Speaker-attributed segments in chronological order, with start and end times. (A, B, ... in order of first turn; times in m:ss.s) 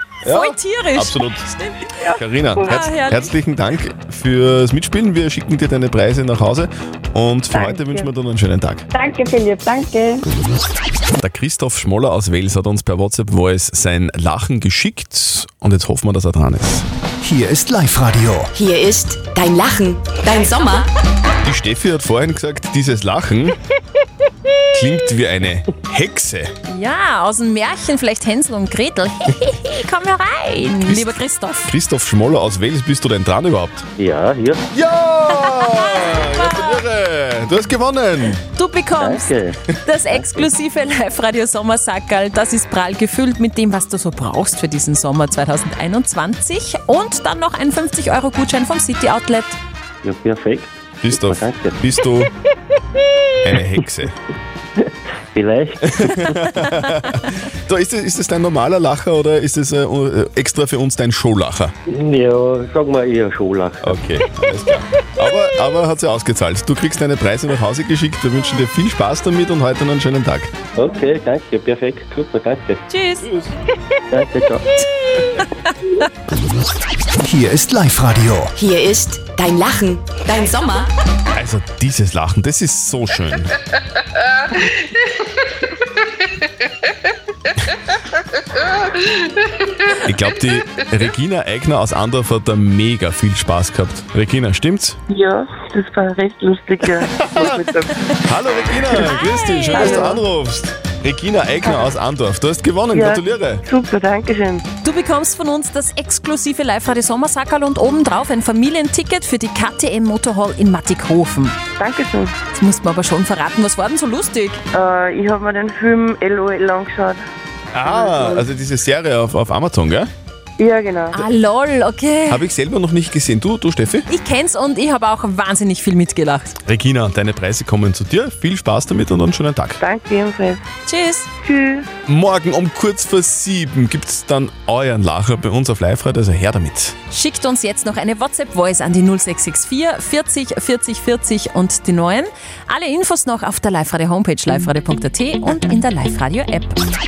0:00.2-0:01.5 A
0:00.2-0:02.0 B
0:02.0-0:02.7 C
0:02.1-0:08.8 A
0:02.6-0:03.3 B
0:07.5-0:08.1 C
0:08.9-0:10.3 C
0:11.2-0:16.9 A
0:17.2-0:18.5 D
0:18.5-0:20.9 E
0:21.4-0:23.6 A
0:24.7-0:26.5 A
0:26.7-0:31.7 B
0:30.8-0:33.9 A
0:34.0-0:34.6 F
0:34.7-0:38.4 A
0:35.3-0:36.8 B
0:38.5-0:49.6 B
0:39.0-0:40.5 F
0:50.0-0:51.8 F
0:51.0-0:52.3 A
0:53.4-0:54.1 A
0:55.3-0:56.4 F
0:56.0-1:01.7 A
1:01.9-1:04.0 F
1:03.8-1:10.5 A
1:10.8-1:12.8 F
1:12.9-1:13.3 B
1:13.2-1:13.5 A
1:14.1-1:14.6 F
1:17.2-1:18.5 D
1:18.6-1:20.9 E
1:21.4-1:23.5 A
1:30.0-1:35.0 A
1:35.1-1:37.9 G
1:36.9-1:37.6 A
1:38.2-1:43.6 A
1:39.0-1:40.0 B
1:39.7-1:40.1 G
1:41.6-1:42.0 G
1:42.9-1:44.6 G
1:44.8-1:51.6 B
1:51.8-1:52.3 G
1:52.6-1:54.6 B
1:54.7-1:57.2 G
1:57.7-2:00.1 A
1:57.8-1:58.4 G
2:00.6-2:01.2 G
2:01.1-2:02.4 B
2:02.3-2:04.1 A
2:04.1-2:06.6 B
2:06.6-2:09.8 A
2:09.8-2:10.6 G
2:10.9-2:11.3 B
2:11.4-2:11.9 G
2:12.1-2:17.0 A
2:17.1-2:26.8 B